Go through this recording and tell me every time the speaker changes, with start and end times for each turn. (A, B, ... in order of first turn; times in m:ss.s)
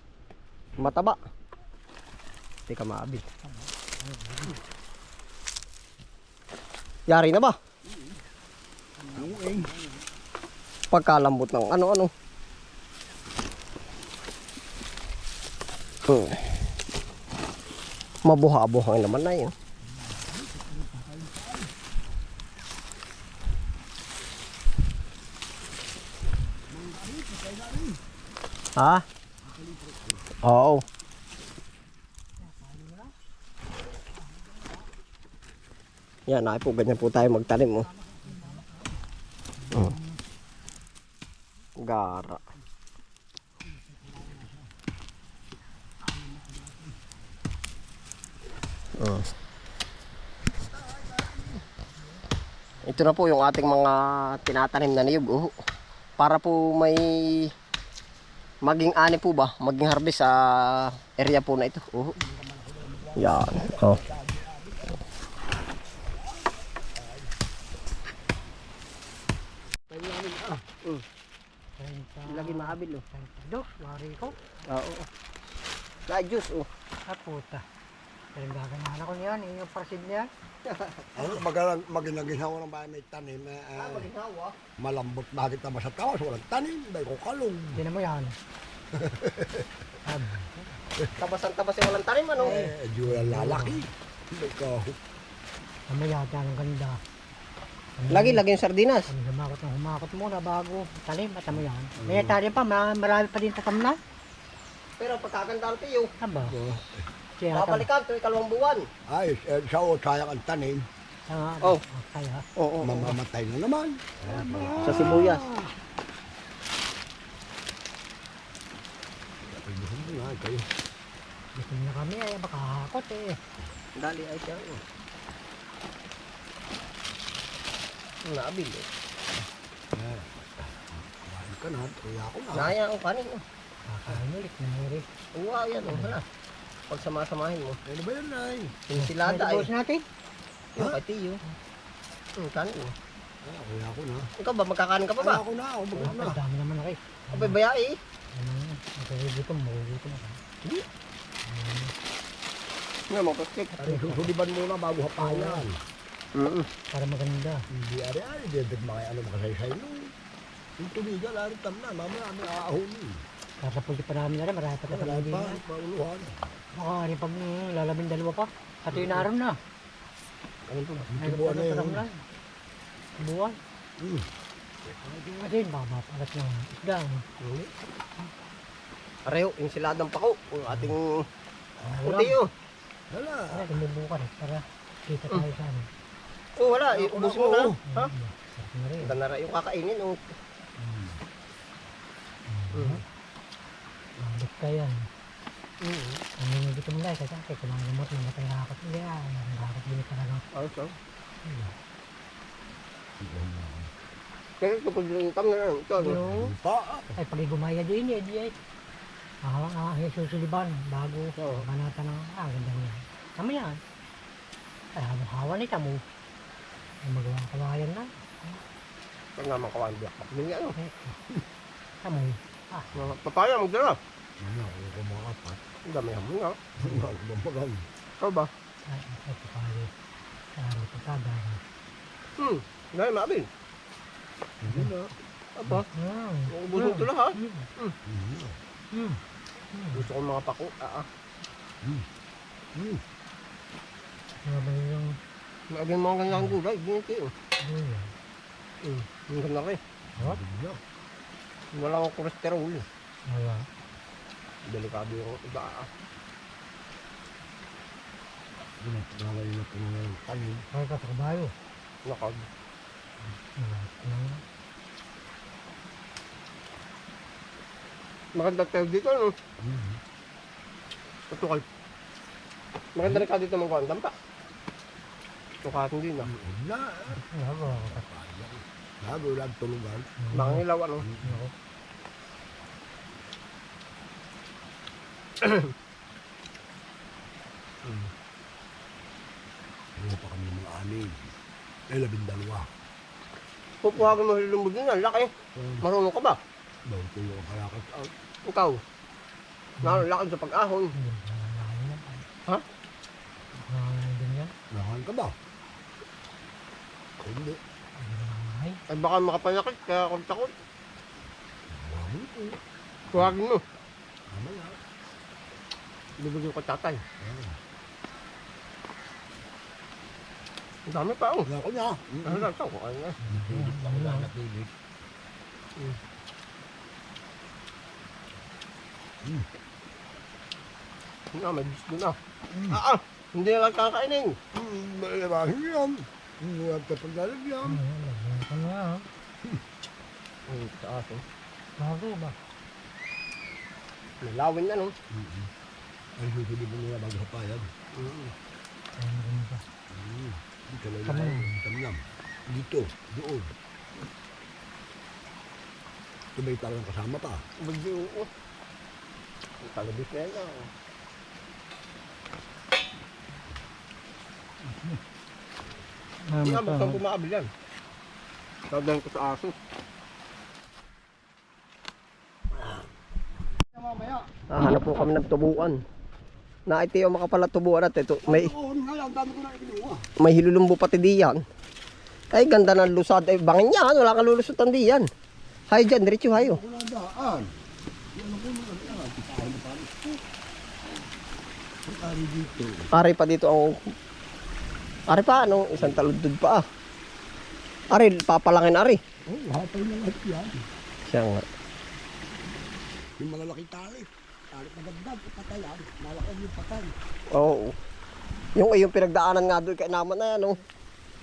0:00.8-0:01.2 A
0:02.7-0:03.2 A
0:03.4-0:04.6 B
0:07.1-0:07.5 A
0:07.9-0:08.1 C
0:09.0-0:09.9 B
0:09.1-0:09.7 C
0:10.9-0:12.1 A
0:16.1-0:16.5 A
0:18.2-0:19.5 A
0:20.1-0:21.7 C
0:26.7-0:28.0 C
0:28.8-0:29.0 A
0:29.4-0:30.4 C
0:30.4-0:30.8 A
0:32.4-0:33.1 B
0:36.3-0:37.9 A
0:38.1-0:38.6 C
0:38.3-0:38.6 B
0:39.7-0:40.0 B
0:41.8-0:42.4 A
0:43.8-0:44.6 C
0:46.4-0:46.8 C
0:49.0-0:49.2 A
0:50.7-0:51.6 C
0:52.8-0:55.5 A
0:56.2-0:57.5 A
0:58.6-1:02.2 A
1:02.2-1:05.0 C
1:03.2-1:04.0 A
1:06.0-1:07.3 C
1:09.9-1:10.7 C
1:11.8-1:14.5 B
1:12.3-1:13.0 A
1:14.7-1:15.1 A
1:16.1-1:16.7 A
1:17.1-1:17.6 B
1:18.4-1:20.3 B
1:20.7-1:21.4 A
1:21.2-1:24.1 C
1:23.8-1:24.6 A
1:24.8-1:27.8 C
1:27.7-1:28.4 B
1:28.9-1:29.7 C
1:30.0-1:30.8 B
1:31.2-1:32.6 A
1:32.4-1:33.8 B
1:32.4-1:35.0 C
1:35.9-1:37.0 B
1:38.0-1:38.5 B
1:38.1-1:39.0 A
1:39.1-1:44.0 B
1:42.0-1:42.4 C
1:45.0-1:46.1 A
1:46.2-1:46.6 B
1:46.5-1:47.1 C
1:47.4-1:47.9 B
1:47.5-1:48.9 A
1:49.1-1:50.9 C
1:51.3-1:52.4 B
1:52.6-1:53.2 A
1:52.8-1:55.7 C
1:54.2-1:55.1 B
1:54.8-1:55.4 A
1:59.5-2:00.7 C
2:01.6-2:03.4 B
2:04.0-2:04.8 A
2:08.3-2:08.8 A
2:09.9-2:12.8 C
2:12.5-2:13.4 A
2:13.9-2:15.0 B
2:15.4-2:16.2 A
2:15.8-2:16.2 B
2:16.9-2:17.8 A
2:17.9-2:18.8 C
2:18.9-2:19.7 A
2:19.0-2:20.0 B
2:20.8-2:21.4 A
2:22.4-2:22.9 A
2:23.4-2:24.3 C
2:24.4-2:25.4 A
2:25.2-2:26.4 C
2:26.0-2:27.6 B
2:27.3-2:28.0 A
2:28.3-2:30.4 B
2:31.4-2:31.9 B
2:33.1-2:33.8 A
2:33.8-2:34.3 B
2:33.8-2:35.8 C
2:35.2-2:35.6 B
2:36.4-2:36.7 A
2:36.9-2:37.6 B
2:37.7-2:40.1 C
2:40.8-2:43.2 C
2:43.6-2:45.6 B
2:44.9-2:46.5 C
2:46.7-2:49.6 B
2:50.7-2:51.1 A
2:51.0-2:52.0 C
2:51.2-2:52.2 B
2:53.2-2:53.6 B
2:54.0-2:54.3 C
2:55.0-2:57.2 B
2:57.4-2:57.7 A
2:59.3-3:01.2 A
3:00.7-3:00.9 B
3:01.8-3:02.4 B
3:02.0-3:02.5 A
3:03.1-3:03.7 C
3:03.5-3:05.9 B
3:06.6-3:08.1 A
3:06.9-3:07.8 C
3:07.9-3:09.2 B
3:09.0-3:10.2 A
3:12.5-3:13.0 B
3:12.7-3:13.0 A
3:14.2-3:15.1 B
3:15.8-3:16.2 A
3:16.4-3:20.4 B
3:20.5-3:21.0 A
3:21.4-3:21.8 B
3:23.2-3:23.9 C
3:24.6-3:26.2 A
3:26.0-3:26.5 B
3:26.3-3:27.2 C
3:27.2-3:28.5 B
3:29.4-3:33.8 B
3:31.4-3:31.7 A
3:34.9-3:36.0 B
3:37.0-3:38.6 B
3:39.4-3:40.8 A
3:40.8-3:41.2 B
3:42.0-3:42.9 B
3:43.0-3:44.0 A
3:44.4-3:45.6 C
3:45.9-3:46.7 A
3:46.8-3:47.1 B
3:46.8-3:47.9 C
3:48.2-3:48.5 A
3:48.9-3:49.9 B
3:50.6-3:51.6 B
3:52.4-3:53.5 A
3:54.6-3:55.1 C
3:55.6-3:55.9 A
3:55.7-3:57.7 B
3:56.5-3:58.0 A
3:58.0-3:58.6 C
3:58.9-3:59.2 B
3:59.7-4:00.1 B
3:59.9-4:01.1 A
4:02.8-4:03.0 C
4:04.4-4:05.2 B
4:05.7-4:07.3 A
4:06.3-4:06.6 B
4:07.6-4:08.1 B
4:08.8-4:09.8 A
4:10.2-4:10.8 C
4:11.7-4:12.9 A
4:13.3-4:13.7 B
4:14.7-4:15.9 A
4:18.8-4:20.7 C
4:20.7-4:21.5 B
4:22.0-4:22.5 A
4:23.6-4:24.4 B
4:28.4-4:29.3 A
4:29.6-4:30.0 C
4:31.3-4:31.6 A
4:33.0-4:34.1 A
4:35.6-4:36.3 A
4:36.2-4:37.2 C
4:37.2-4:38.0 B
4:37.8-4:40.1 C
4:40.2-4:40.6 B
4:40.3-4:41.1 A
4:41.1-4:41.4 C
4:41.2-4:41.5 B
4:45.4-4:45.7 A
4:47.8-4:48.1 C
4:50.0-4:51.2 C
4:51.9-4:52.7 C
4:53.8-4:56.4 A
4:55.6-4:55.9 C
4:56.9-4:58.1 C
4:58.4-4:58.8 A
4:59.8-5:00.1 B
4:59.8-5:00.9 A
5:00.9-5:02.3 B
5:03.6-5:04.5 B
5:04.7-5:05.3 C
5:07.2-5:07.6 C
5:08.0-5:08.8 B
5:08.9-5:10.5 A
5:11.7-5:12.6 C
5:13.1-5:13.6 A
5:14.3-5:14.8 C
5:16.2-5:17.0 A
5:17.2-5:17.6 C
5:20.9-5:21.5 A
5:21.4-5:22.5 C
5:22.3-5:23.2 A
5:23.2-5:24.3 B
5:23.3-5:24.7 C
5:31.3-5:32.2 A
5:32.5-5:32.8 C
5:32.7-5:34.4 A
5:34.5-5:37.8 C
5:37.6-5:39.1 B
5:40.5-5:41.2 A
5:41.8-5:42.4 B
5:44.2-5:45.0 A
5:45.1-5:45.5 C
5:46.2-5:47.9 C
5:48.0-5:48.3 A
5:49.0-5:49.6 B
5:49.9-5:53.6 C
5:51.0-5:51.6 B
5:56.4-5:57.4 C
5:57.6-5:58.3 A
5:59.6-6:00.7 A
6:04.6-6:05.0 B
6:06.3-6:07.0 B
6:06.4-6:07.5 A
6:08.7-6:09.5 A
6:13.7-6:14.3 C
6:14.5-6:15.8 A
6:16.7-6:18.5 A
6:18.3-6:20.0 C
6:20.2-6:21.4 A
6:22.3-6:25.1 A
6:25.7-6:26.6 A
6:26.3-6:27.5 C
6:28.2-6:30.2 C
6:31.9-6:32.9 C
6:33.0-6:33.8 A
6:35.1-6:36.6 A
6:35.7-6:36.1 C
6:37.9-6:39.0 A
6:39.3-6:40.6 C
6:41.1-6:41.4 A
6:43.2-6:47.0 C
6:47.4-6:47.7 A
6:48.6-6:50.6 A